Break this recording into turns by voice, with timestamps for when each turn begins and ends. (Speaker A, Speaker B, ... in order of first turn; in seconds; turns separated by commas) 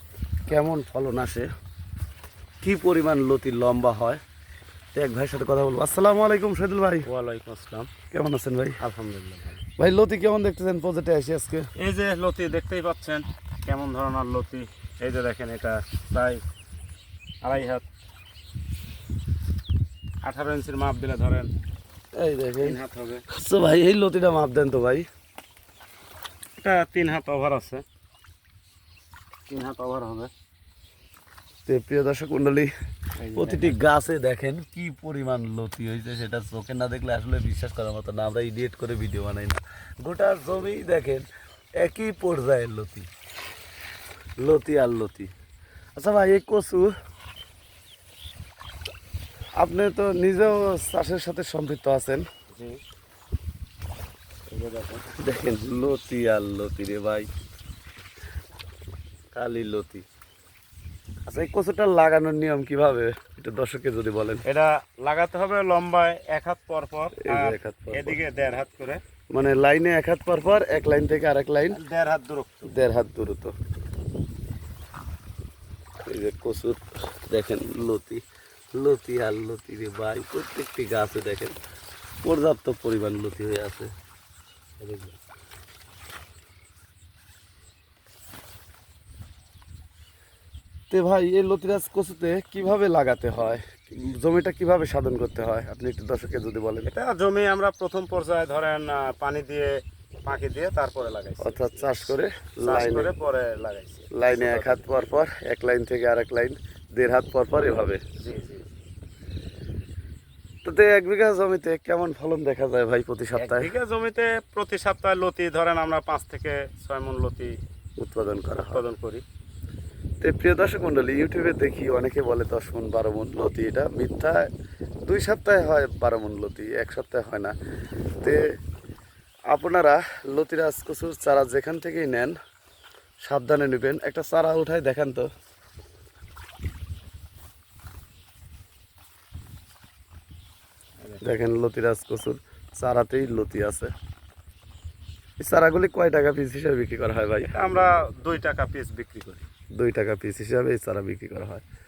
Speaker A: 0.5-1.5, Speaker A: 2.6-4.2, Speaker A: 4.9-7.1, Speaker B: 7.0-7.9, Speaker A: 8.1-8.8, Speaker B: 8.8-9.6, Speaker A: 9.8-11.7, Speaker B: 11.8-16.4, Speaker B: 17.4-17.9, Speaker B: 20.2-21.5, Speaker A: 22.1-22.8, Speaker B: 22.6-23.2, Speaker A: 23.3-25.1, Speaker B: 26.6-27.8, Speaker B: 29.5-30.3, Speaker A: 31.6-32.7, Speaker B: 33.2-33.8, Speaker A: 33.4-41.3, Speaker A: 41.8-43.1, Speaker A: 44.4-45.3, Speaker A: 46.0-46.9, Speaker A: 49.6-52.2, Speaker B: 52.5-52.8, Speaker B: 54.5-55.1, Speaker A: 55.1-57.3, Speaker A: 59.3-60.0, Speaker A: 61.3-64.4, Speaker B: 64.4-69.0, Speaker A: 67.2-68.2, Speaker A: 69.3-71.8, Speaker B: 71.7-72.7, Speaker A: 72.7-73.5, Speaker A: 76.1-78.2, Speaker A: 78.7-81.6, Speaker A: 82.2-83.9, Speaker A: 84.8-85.1, Speaker A: 90.9-96.9, Speaker B: 96.9-99.7, Speaker B: 100.2-104.9, Speaker A: 101.4-103.1, Speaker A: 104.1-108.0, Speaker B: 108.2-108.7, Speaker A: 110.6-113.7, Speaker B: 113.4-117.5, Speaker A: 118.0-118.8, Speaker B: 118.6-119.2, Speaker A: 120.2-124.5, Speaker A: 125.0-127.5, Speaker A: 129.5-132.4, Speaker A: 133.3-135.3, Speaker A: 141.2-143.9, Speaker A: 145.4-147.6, Speaker B: 147.5-149.4, Speaker A: 149.8-151.6